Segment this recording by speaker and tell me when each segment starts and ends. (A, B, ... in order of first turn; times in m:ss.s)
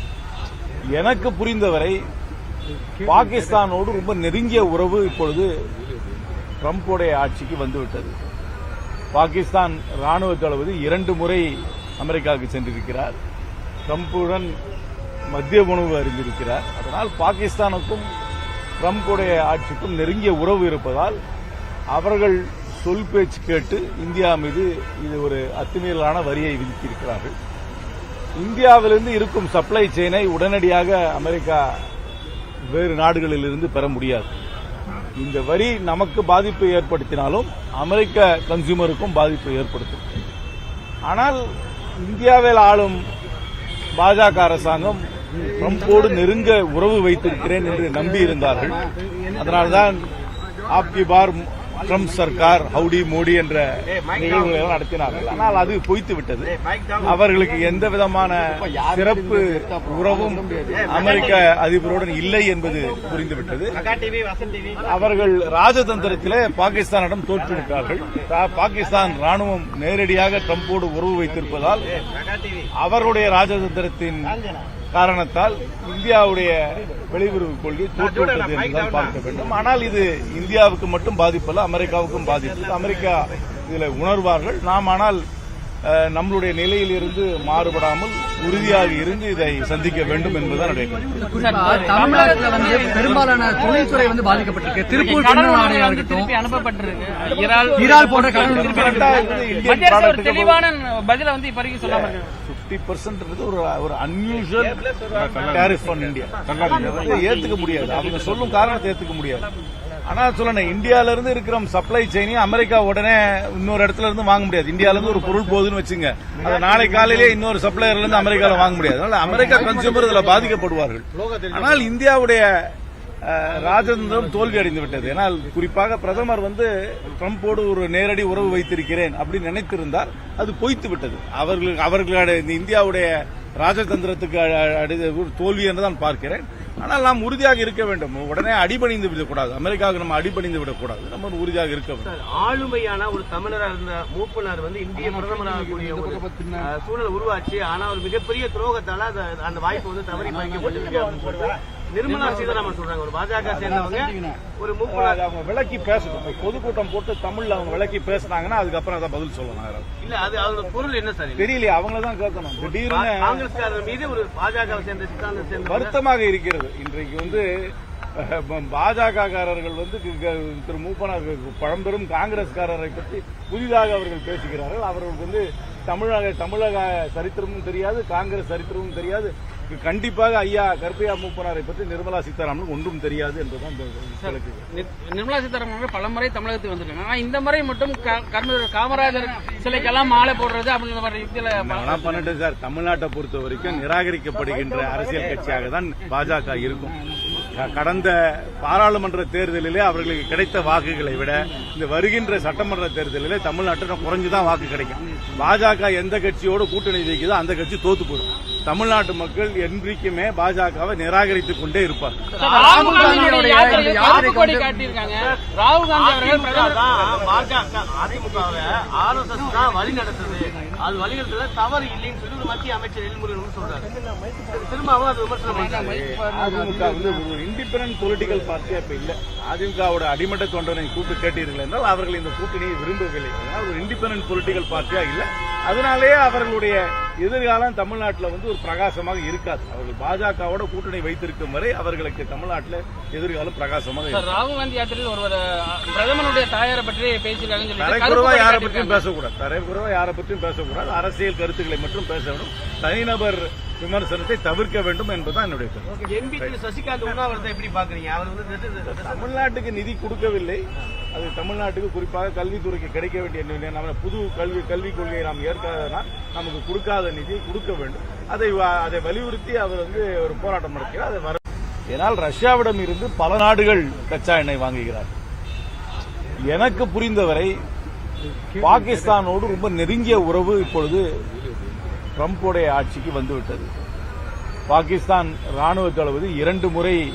0:00.9-0:02.0 A
0:03.0-0:05.5 A
0:06.6-0:08.1 A
0:09.1-0:11.4 A
0:12.0-0:13.2 A
0:13.9-0:14.5 A
0:15.3-0:18.1 A
0:18.8-0:21.2 A
0:21.9-0:27.3 A
0:28.4-0:31.8 A
0:32.7-0:34.3 A
0:35.2-0:40.0 A
0:41.1-0:41.4 A
0:42.0-0:43.0 A
0:44.0-0:45.0 A
0:45.6-0:48.8 A
0:49.4-0:50.0 A
0:50.7-1:03.8 A
1:04.8-1:11.9 A
1:12.8-1:14.4 A
1:14.9-1:16.6 A
1:17.1-1:25.2 A
1:25.8-1:31.0 A
1:31.3-1:33.2 B
1:31.4-1:36.3 C
1:34.9-1:42.3 B
1:37.8-1:39.1 C
1:38.4-1:40.6 A
1:42.4-1:49.5 A
1:50.1-2:02.5 A
2:03.2-2:22.1 A
2:22.0-2:35.2 D
2:34.9-2:39.9 A
2:40.0-2:41.5 D
2:41.4-2:43.4 A
2:42.6-2:45.9 D
2:45.7-2:47.4 A
2:48.2-3:04.6 A
3:04.2-3:12.2 B
3:11.6-3:16.9 A
3:17.5-3:32.2 A
3:32.4-3:33.3 D
3:32.4-3:36.8 B
3:32.4-3:34.8 C
3:35.9-3:46.0 D
3:45.8-4:04.3 A
4:04.1-4:09.0 B
4:07.8-4:16.6 A
4:16.1-4:19.3 D
4:18.9-4:31.4 A
4:31.9-4:35.1 A
4:36.5-4:37.5 A
4:38.6-4:41.0 A
4:42.2-4:43.7 A
4:44.7-4:47.0 A